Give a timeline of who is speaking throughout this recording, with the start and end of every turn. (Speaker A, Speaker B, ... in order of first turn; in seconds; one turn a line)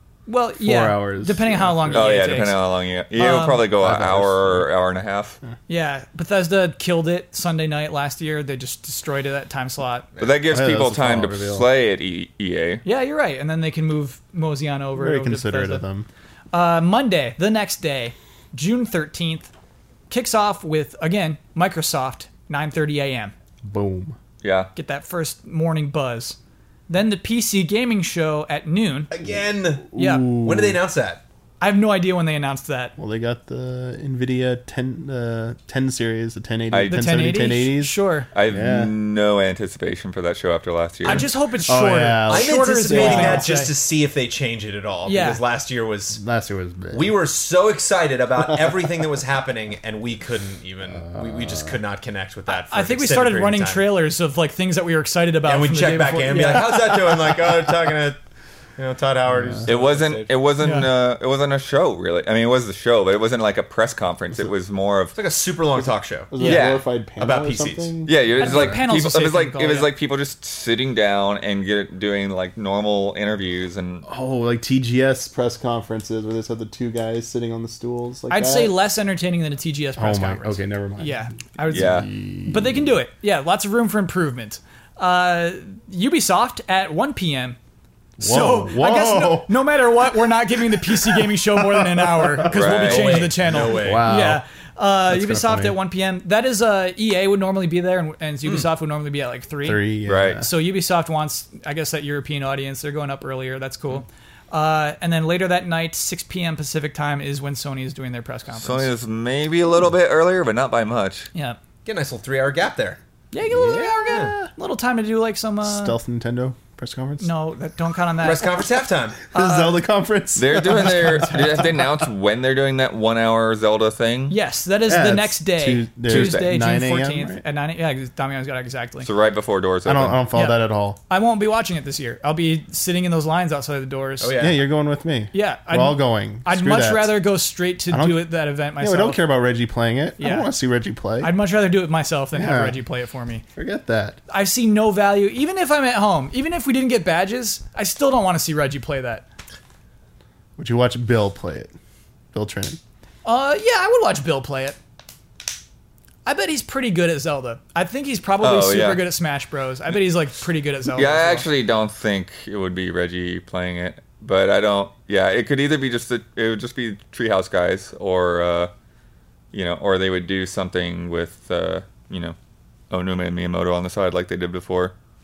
Speaker A: 0.3-2.6
Speaker B: 0.6-2.1
Speaker C: 1.9-5.4
Speaker A: 3.1-3.6
Speaker B: 3.8-4.7
Speaker A: 5.7-10.1
Speaker C: 10.2-12.8
Speaker B: 10.5-11.7
Speaker A: 12.8-15.8
Speaker B: 15.0-16.1
Speaker A: 16.5-19.5
Speaker A: 20.1-23.3
Speaker B: 23.6-24.1
Speaker C: 24.4-24.7
Speaker A: 24.7-26.4
Speaker A: 26.9-29.1
Speaker D: 29.1-31.2
Speaker B: 29.9-30.8
Speaker A: 29.9-30.3
Speaker A: 31.6-33.0
Speaker B: 33.0-38.0
Speaker C: 36.7-37.0
Speaker A: 36.9-38.3
Speaker C: 38.3-41.3
Speaker B: 38.5-38.9
Speaker A: 41.0-43.7
Speaker B: 41.6-43.5
Speaker D: 42.3-46.2
Speaker A: 45.0-45.4
Speaker B: 46.1-47.1
Speaker D: 46.9-53.9
Speaker B: 51.0-51.7
Speaker A: 52.5-57.1
Speaker D: 55.4-58.2
Speaker D: 58.8-60.3
Speaker B: 59.3-59.7
Speaker C: 59.6-65.2
Speaker A: 60.6-60.9
Speaker D: 65.1-67.9
Speaker B: 66.3-68.8
Speaker C: 66.4-66.8
Speaker C: 68.0-74.0
Speaker A: 68.4-69.9
Speaker B: 74.0-78.7
Speaker A: 78.3-87.6
Speaker B: 80.0-81.2
Speaker C: 81.7-82.1
Speaker B: 81.7-82.9
Speaker B: 88.2-89.5
Speaker A: 88.2-99.8
Speaker B: 90.8-92.5
Speaker C: 92.5-93.3
Speaker D: 92.5-94.1
Speaker B: 93.5-94.4
Speaker B: 95.1-95.8
Speaker B: 99.6-100.5
Speaker C: 100.1-100.4
Speaker A: 100.4-108.9
Speaker C: 108.5-111.3
Speaker D: 111.8-113.0
Speaker A: 113.3-116.0
Speaker B: 113.4-114.5
Speaker B: 115.6-117.3
Speaker A: 117.2-118.6
Speaker D: 118.2-119.2
Speaker A: 119.3-119.8
Speaker B: 119.3-121.8
Speaker C: 120.4-124.3
Speaker A: 124.3-129.1
Speaker B: 124.9-127.4
Speaker C: 126.1-126.5
Speaker C: 129.0-130.2
Speaker B: 129.9-131.0
Speaker A: 130.3-134.3
Speaker D: 134.2-134.6
Speaker B: 134.4-137.2
Speaker A: 135.3-139.2
Speaker B: 137.9-138.3
Speaker B: 138.8-141.3
Speaker A: 140.2-140.5
Speaker A: 141.2-143.4
Speaker B: 142.3-142.8
Speaker B: 143.6-144.2
Speaker A: 144.3-149.2
Speaker B: 150.6-151.7
Speaker B: 152.3-152.8
Speaker A: 153.2-154.8
Speaker A: 156.2-161.5
Speaker C: 158.4-159.1
Speaker C: 160.9-168.7
Speaker C: 169.5-172.3
Speaker C: 172.9-174.9